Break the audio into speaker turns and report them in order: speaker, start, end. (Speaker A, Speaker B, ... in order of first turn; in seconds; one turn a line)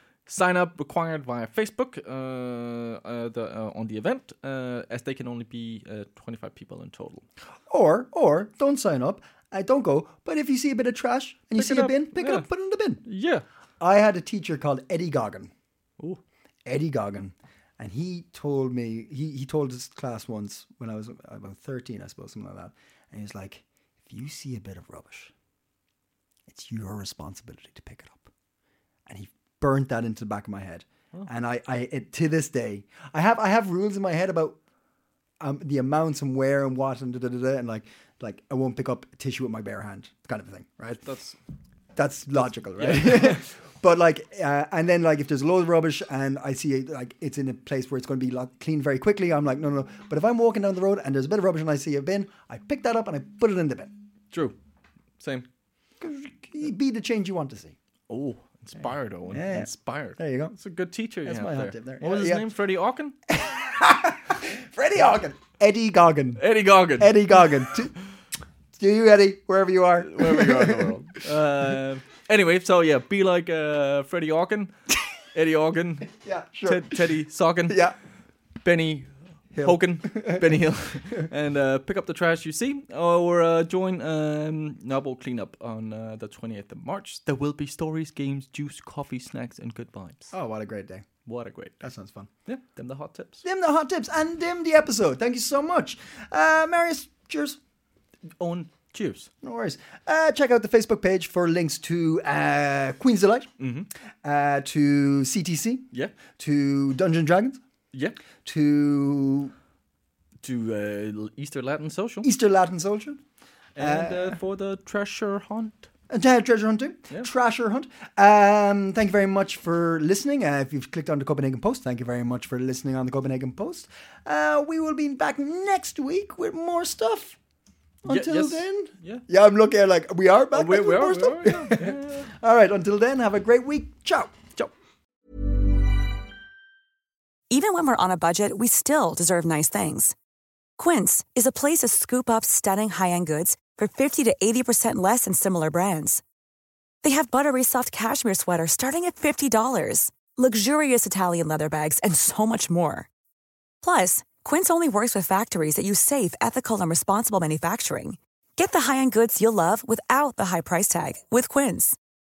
Speaker A: 0.2-7.2
Speaker B: 7.7-13.0
Speaker A: 11.6-12.4
Speaker A: 13.0-13.4
Speaker B: 13.8-15.5
Speaker B: 16.6-25.3
Speaker B: 26.5-28.3
Speaker B: 29.1-34.6
Speaker B: 35.4-41.0
Speaker A: 41.0-41.4
Speaker B: 42.0-53.9
Speaker A: 42.4-43.4
Speaker A: 54.3-54.5
Speaker A: 55.2-55.5
Speaker B: 56.0-57.7
Speaker A: 58.1-63.1
Speaker B: 59.3-60.5
Speaker B: 61.2-62.5
Speaker B: 63.3-67.9
Speaker A: 66.4-67.3
Speaker B: 68.7-70.9
Speaker A: 70.0-74.7
Speaker A: 75.3-76.1
Speaker B: 76.1-77.0
Speaker A: 76.6-77.8
Speaker B: 77.7-78.0
Speaker A: 78.6-90.3
Speaker B: 79.5-80.5
Speaker B: 90.3-91.1
Speaker A: 91.2-91.8
Speaker B: 91.8-92.3
Speaker A: 92.5-93.4
Speaker B: 93.4-97.6
Speaker A: 98.4-99.3
Speaker B: 99.4-103.5
Speaker A: 103.6-103.9
Speaker B: 104.2-107.6
Speaker B: 108.4-109.5
Speaker A: 110.4-112.3
Speaker B: 112.2-113.2
Speaker A: 113.8-115.9
Speaker B: 113.8-114.4
Speaker B: 116.1-127.4
Speaker B: 128.0-134.4
Speaker A: 128.1-129.2
Speaker A: 130.5-132.3
Speaker C: 137.5-140.1
Speaker C: 140.8-146.2
Speaker C: 147.0-153.1
Speaker C: 153.8-162.0